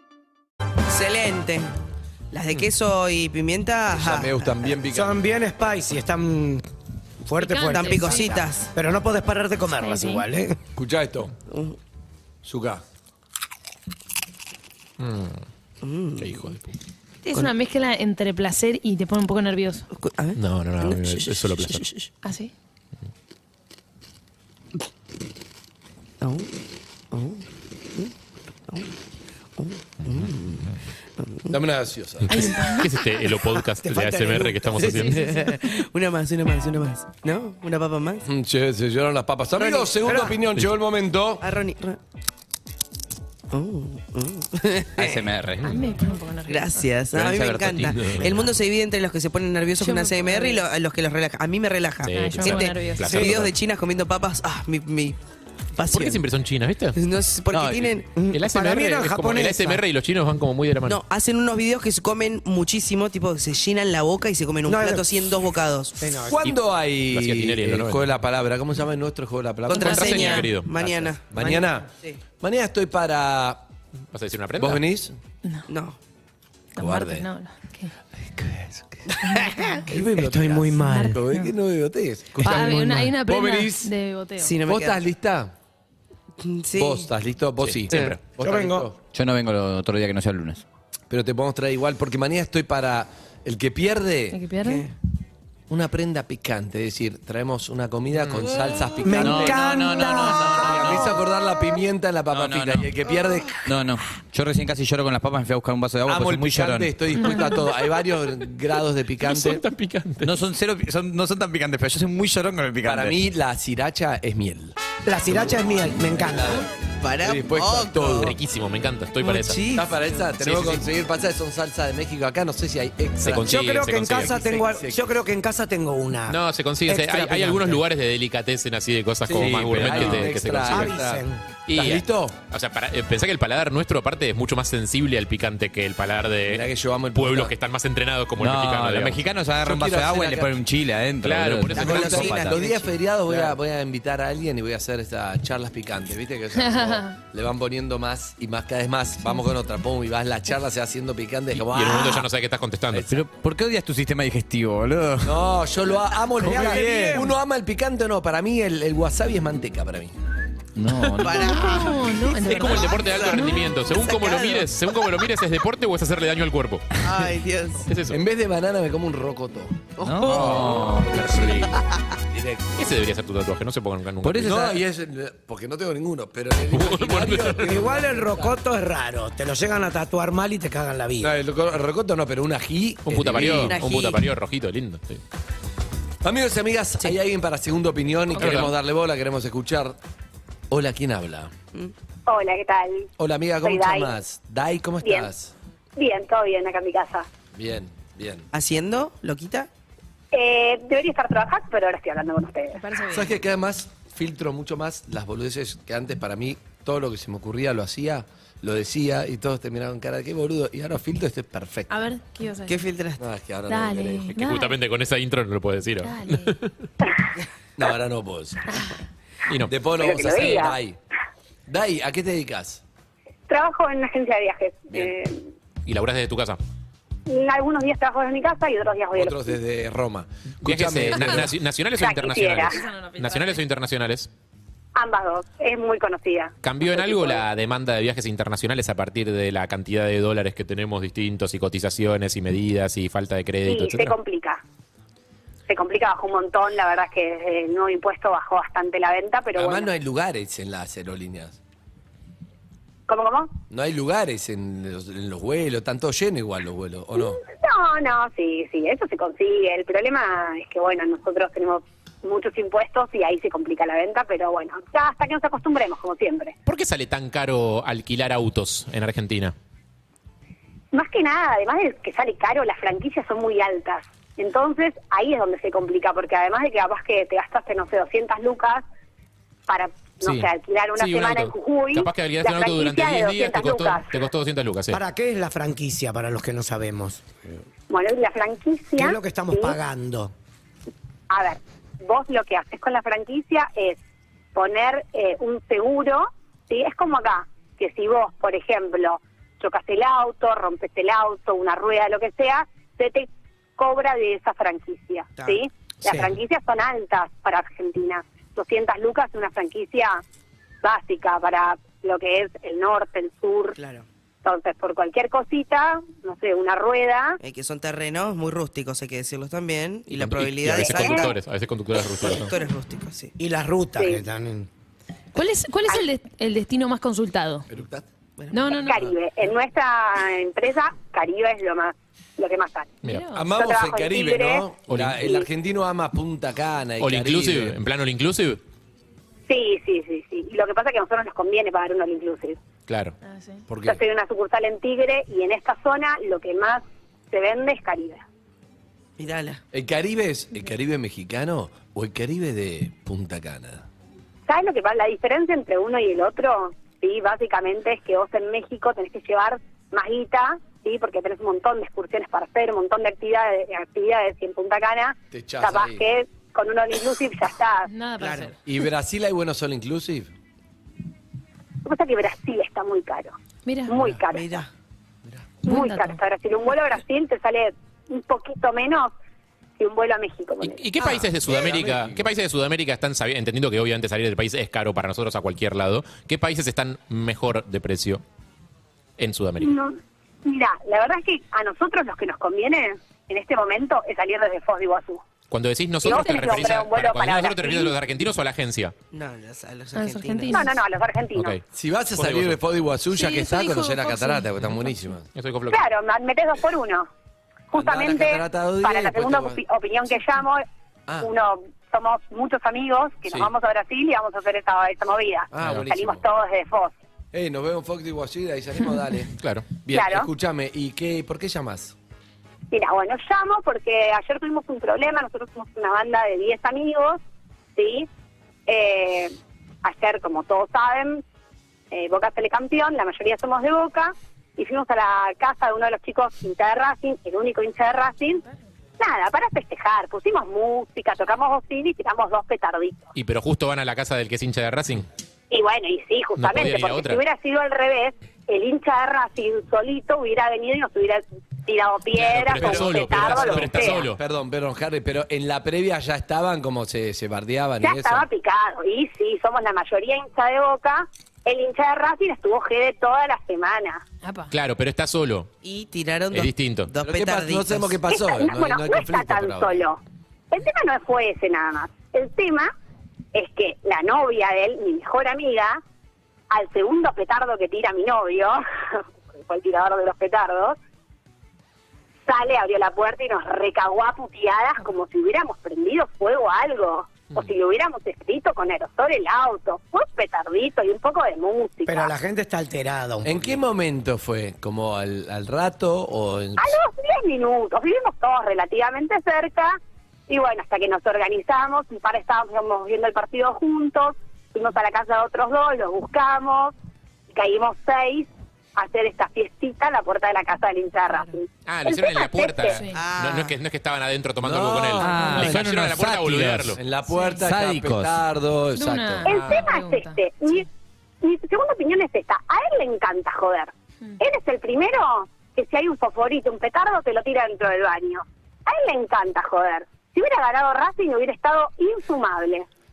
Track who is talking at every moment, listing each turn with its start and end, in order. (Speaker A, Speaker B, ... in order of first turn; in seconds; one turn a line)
Speaker A: 0.9-1.7
Speaker A: 2.3-4.6
Speaker B: 3.9-5.2
Speaker C: 4.9-6.7
Speaker C: 7.2-10.6
Speaker D: 7.4-8.4
Speaker A: 7.7-8.7
Speaker D: 9.8-10.2
Speaker B: 10.8-11.3
Speaker A: 11.5-11.8
Speaker B: 12.4-12.8
Speaker E: 15.0-15.4
Speaker A: 15.8-16.6
Speaker E: 16.2-16.7
Speaker D: 17.2-19.9
Speaker A: 19.9-22.1
Speaker E: 20.4-21.9
Speaker D: 22.2-22.5
Speaker A: 26.2-26.5
Speaker A: 27.1-27.4
Speaker A: 29.6-31.6
Speaker B: 31.5-32.5
Speaker E: 32.3-35.3
Speaker D: 32.3-33.1
Speaker C: 33.9-35.1
Speaker A: 34.8-38.2
Speaker D: 35.1-35.6
Speaker B: 38.2-41.4
Speaker A: 39.6-39.9
Speaker C: 40.0-40.4
Speaker A: 41.4-42.0
Speaker A: 43.5-45.3
Speaker F: 45.0-45.7
Speaker D: 45.6-46.9
Speaker A: 46.5-55.2
Speaker F: 47.1-48.5
Speaker D: 49.8-50.7
Speaker E: 52.0-53.5
Speaker D: 52.1-53.2
Speaker A: 55.8-56.2
Speaker E: 55.9-57.0
Speaker A: 57.0-58.1
Speaker C: 58.0-59.8
Speaker E: 58.3-61.0
Speaker A: 60.9-66.0
Speaker C: 64.7-65.1
Speaker C: 66.0-66.4
Speaker B: 66.3-73.6
Speaker E: 66.4-68.1
Speaker A: 69.7-72.2
Speaker D: 69.7-70.5
Speaker E: 69.8-70.8
Speaker E: 74.1-74.8
Speaker B: 74.6-75.2
Speaker A: 75.7-76.0
Speaker B: 76.8-77.3
Speaker D: 76.8-77.9
Speaker B: 78.2-79.2
Speaker C: 79.5-81.2
Speaker B: 79.9-83.9
Speaker D: 80.8-81.5
Speaker D: 82.4-84.6
Speaker A: 84.4-85.0
Speaker B: 84.7-85.5
Speaker A: 86.4-87.1
Speaker B: 86.8-89.0
Speaker E: 87.6-88.2
Speaker C: 88.4-88.9
Speaker F: 89.1-90.6
Speaker B: 91.1-94.4
Speaker D: 94.3-94.9
Speaker A: 94.6-94.9
Speaker B: 95.7-103.7
Speaker E: 98.2-98.6
Speaker C: 99.0-100.8
Speaker F: 99.1-101.2
Speaker F: 102.3-102.9
Speaker F: 103.7-107.1
Speaker B: 106.1-109.6
Speaker D: 107.2-107.7
Speaker E: 109.2-110.4
Speaker F: 110.2-113.2
Speaker B: 112.8-118.4
Speaker C: 115.0-116.7
Speaker A: 117.0-118.3
Speaker E: 118.2-119.7
Speaker A: 119.2-120.2
Speaker B: 119.7-125.1
Speaker E: 120.4-120.9
Speaker E: 123.2-124.5
Speaker C: 123.4-127.8
Speaker E: 126.3-130.9
Speaker B: 129.3-132.4
Speaker F: 129.4-130.3
Speaker C: 130.6-131.4
Speaker E: 131.7-139.2
Speaker B: 136.5-137.5
Speaker F: 138.4-142.6
Speaker B: 139.6-140.5
Speaker E: 141.2-142.3
Speaker A: 141.8-143.0
Speaker B: 141.8-152.3
Speaker D: 146.6-147.2
Speaker E: 151.5-153.1
Speaker F: 153.1-155.5
Speaker B: 155.2-160.1
Speaker C: 156.4-157.4
Speaker F: 156.4-157.3
Speaker F: 160.8-161.5
Speaker A: 161.2-165.2
Speaker D: 161.4-163.8
Speaker E: 162.4-167.1
Speaker A: 167.0-167.9
Speaker E: 167.8-168.2
Speaker B: 168.1-170.9
Speaker F: 170.0-171.6
Speaker A: 170.0-170.5
Speaker E: 171.0-171.8
Speaker A: 171.8-172.0
Speaker B: 172.3-172.9
Speaker E: 172.8-174.6
Speaker F: 174.2-174.8
Speaker B: 174.4-178.6
Speaker E: 176.7-177.8
Speaker C: 177.6-181.3
Speaker B: 181.2-183.8
Speaker E: 183.1-185.2
Speaker A: 183.4-184.2
Speaker B: 186.2-190.0
Speaker E: 188.3-188.8
Speaker B: 190.7-191.5
Speaker G: 192.3-193.1
Speaker B: 193.2-195.5
Speaker G: 193.6-194.1
Speaker G: 195.0-195.3
Speaker G: 196.0-197.3
Speaker B: 197.5-198.5
Speaker A: 198.5-199.7
Speaker G: 200.3-202.8
Speaker D: 202.7-203.4
Speaker B: 203.1-212.0
Speaker D: 211.9-212.9
Speaker A: 212.7-213.2
Speaker B: 213.2-214.3
Speaker D: 213.7-214.8
Speaker E: 214.3-216.7
Speaker D: 216.0-216.6
Speaker B: 217.8-218.7
Speaker B: 219.7-221.0
Speaker G: 220.0-220.8
Speaker B: 221.7-222.8
Speaker G: 223.5-225.4
Speaker E: 225.8-226.6
Speaker G: 227.3-229.6
Speaker B: 229.2-231.5
Speaker E: 230.6-234.3
Speaker G: 232.0-232.8
Speaker D: 232.7-233.6
Speaker G: 234.9-237.4
Speaker E: 236.6-244.2
Speaker G: 243.7-244.6
Speaker G: 245.7-249.9
Speaker B: 249.6-251.6
Speaker G: 253.1-253.5
Speaker B: 253.7-257.4
Speaker G: 257.2-266.5
Speaker E: 266.7-269.5
Speaker G: 270.9-278.8
Speaker G: 279.7-284.1
Speaker E: 280.2-285.0
Speaker C: 284.9-287.3
Speaker G: 287.9-289.8
Speaker C: 289.0-290.3
Speaker G: 291.3-294.0
Speaker G: 294.6-310.2
Speaker A: 305.4-305.6
Speaker G: 310.8-313.8
Speaker A: 313.8-314.1
Speaker G: 314.4-317.4
Speaker A: 317.4-321.4
Speaker E: 320.1-322.5
Speaker G: 320.9-321.3
Speaker A: 322.0-323.3
Speaker C: 323.4-324.7
Speaker G: 324.0-324.2
Speaker D: 325.3-327.7
Speaker B: 327.7-328.1
Speaker A: 328.4-328.6
Speaker D: 328.5-329.1
Speaker G: 328.8-333.0
Speaker D: 333.1-333.5
Speaker B: 333.3-337.8
Speaker G: 333.6-334.6
Speaker E: 334.9-335.2
Speaker G: 335.2-335.5
Speaker E: 337.0-338.6
Speaker G: 339.5-342.6
Speaker E: 342.9-343.2
Speaker D: 343.2-343.6
Speaker B: 343.7-344.0
Speaker G: 343.9-348.2
Speaker A: 349.2-349.6
Speaker B: 349.7-353.9
Speaker G: 354.5-367.9
Speaker B: 365.3-366.1
Speaker D: 367.9-368.6
Speaker A: 368.2-368.5
Speaker B: 368.6-370.3
Speaker G: 371.9-373.4
Speaker D: 373.7-374.1
Speaker G: 373.9-374.5
Speaker A: 374.3-374.7
Speaker D: 375.6-376.2
Speaker G: 375.7-379.1
Speaker G: 379.8-380.8
Speaker E: 380.6-388.2
Speaker B: 381.0-382.3
Speaker E: 389.2-389.7
Speaker G: 389.6-395.2
Speaker E: 395.5-398.9
Speaker G: 396.0-398.0
Speaker A: 399.1-400.6
Speaker D: 399.9-400.8
Speaker G: 400.5-401.6
Speaker E: 401.4-401.6
Speaker B: 401.7-405.3
Speaker E: 402.1-402.6
Speaker D: 403.1-404.9
Speaker E: 405.3-405.8
Speaker G: 405.7-407.1
Speaker G: 407.7-410.6
Speaker B: 407.7-409.6
Speaker G: 411.2-417.0
Speaker B: 415.5-416.2
Speaker B: 417.3-421.9
Speaker E: 419.4-419.7
Speaker G: 419.9-420.3
Speaker G: 422.7-427.2
Speaker G: 427.8-428.1
Speaker G: 428.7-431.2
Speaker G: 431.9-438.4
Speaker G: 439.0-443.1
Speaker E: 443.1-445.1
Speaker G: 445.5-454.1
Speaker E: 446.4-447.2
Speaker E: 452.2-454.2
Speaker B: 452.4-458.3
Speaker G: 457.8-464.0
Speaker D: 464.2-464.5
Speaker E: 464.5-465.5
Speaker A: 465.6-468.1
Speaker E: 466.3-466.9
Speaker B: 467.0-469.9
Speaker G: 468.1-470.0
Speaker G: 470.5-472.7
Speaker G: 473.3-475.8
Speaker G: 476.5-480.8
Speaker G: 482.3-492.1
Speaker C: 491.9-493.6
Speaker B: 493.2-496.8
Speaker G: 496.6-506.7
Speaker G: 507.3-512.8
Speaker E: 511.7-516.8
Speaker D: 512.8-513.1
Speaker A: 512.9-513.5
Speaker B: 514.4-515.8
Speaker F: 515.0-516.8
Speaker B: 516.8-519.6
Speaker D: 517.1-517.5
Speaker F: 517.4-518.2
Speaker D: 518.8-520.2
Speaker G: 519.2-520.7
Speaker G: 521.2-532.7